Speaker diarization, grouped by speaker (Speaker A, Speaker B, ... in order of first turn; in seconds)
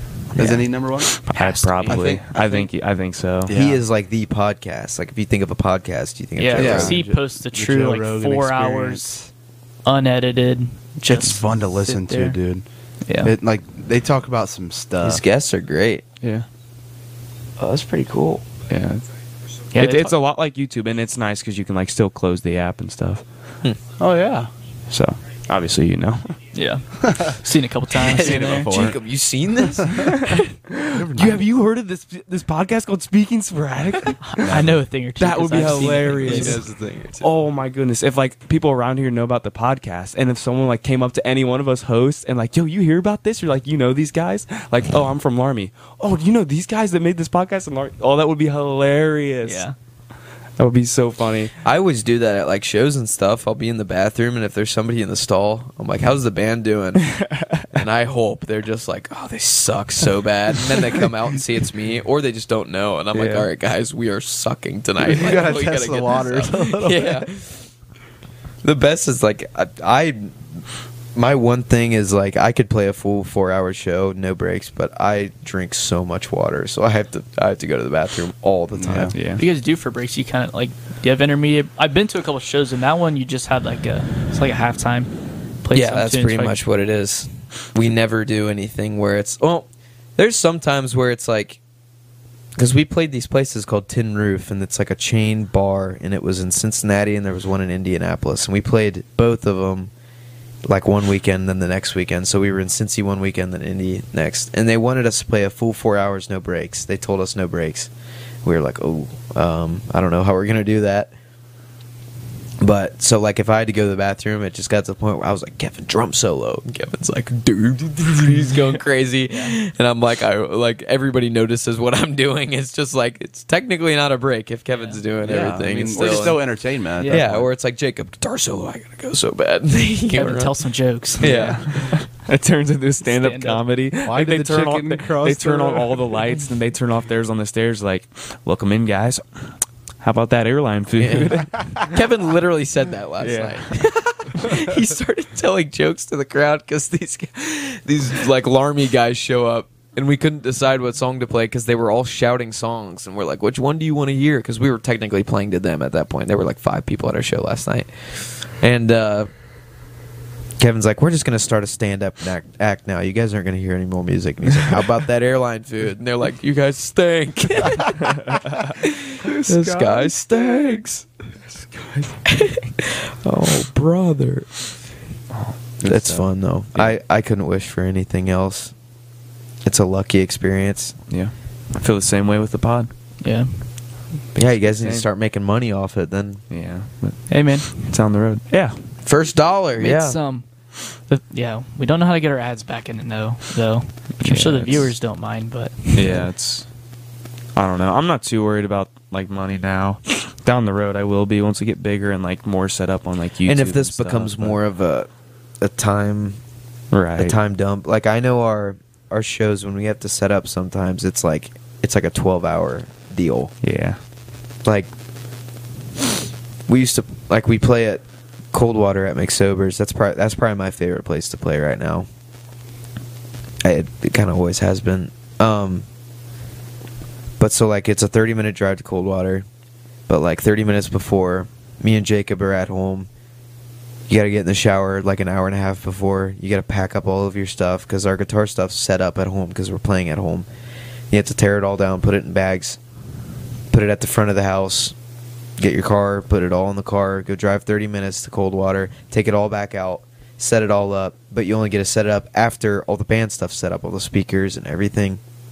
Speaker A: 0.3-0.6, 3.5-7.0, 15.0-16.0, 17.6-18.4, 28.0-30.4, 35.5-37.3, 51.6-67.7, 68.6-70.6, 71.1-79.2, 85.7-91.6, 92.5-99.9, 100.6-107.9, 108.4-111.1, 112.6-130.5, 131.2-132.0, 141.0-159.3, 160.6-171.1, 172.3-174.6, 175.8-178.7, 179.6-181.0, 184.3-186.4, 189.0-190.2, 203.4-205.1, 205.6-206.4, 207.2-213.5, 214.6-214.9, 216.7-222.1, 223.6-225.8, 227.4-229.5, 230.1-233.1, 234.1-240.4, 241.1-242.8, 243.7-244.9, 245.6-255.2
Speaker B: 0.3-1.2, 1.9-2.2, 3.5-3.8, 6.5-9.3, 11.0-12.6, 13.2-15.2, 24.0-24.5, 28.1-28.9, 30.9-31.4, 34.4-34.8, 65.0-67.2, 78.7-79.1, 125.2-127.5, 134.0-136.2
Speaker C: 1.2-3.5, 16.2-16.4, 18.7-19.1, 19.7-23.2, 24.9-26.4, 28.2-28.9, 29.9-49.7, 50.6-51.5, 57.1-57.6, 63.1-63.5, 79.1-79.4, 125.9-126.2, 131.2-131.6, 132.1-141.9, 143.2-144.1, 169.5-170.1, 171.5-172.2, 175.3-176.9, 181.1-182.9, 184.4-185.1, 186.5-188.9, 194.2-194.9, 195.9-196.7, 197.5-204.6, 206.9-207.4, 213.6-214.0
Speaker D: 1.3-2.7, 6.4-9.1, 9.8-12.4, 13.0-13.3, 19.7-20.1, 26.5-28.7, 34.2-36.5, 49.4-49.7, 79.3-86.6, 119.3-119.5, 127.0-127.3, 130.1-132.0, 133.0-133.6, 183.2-183.6, 187.3-187.7, 189.8-196.2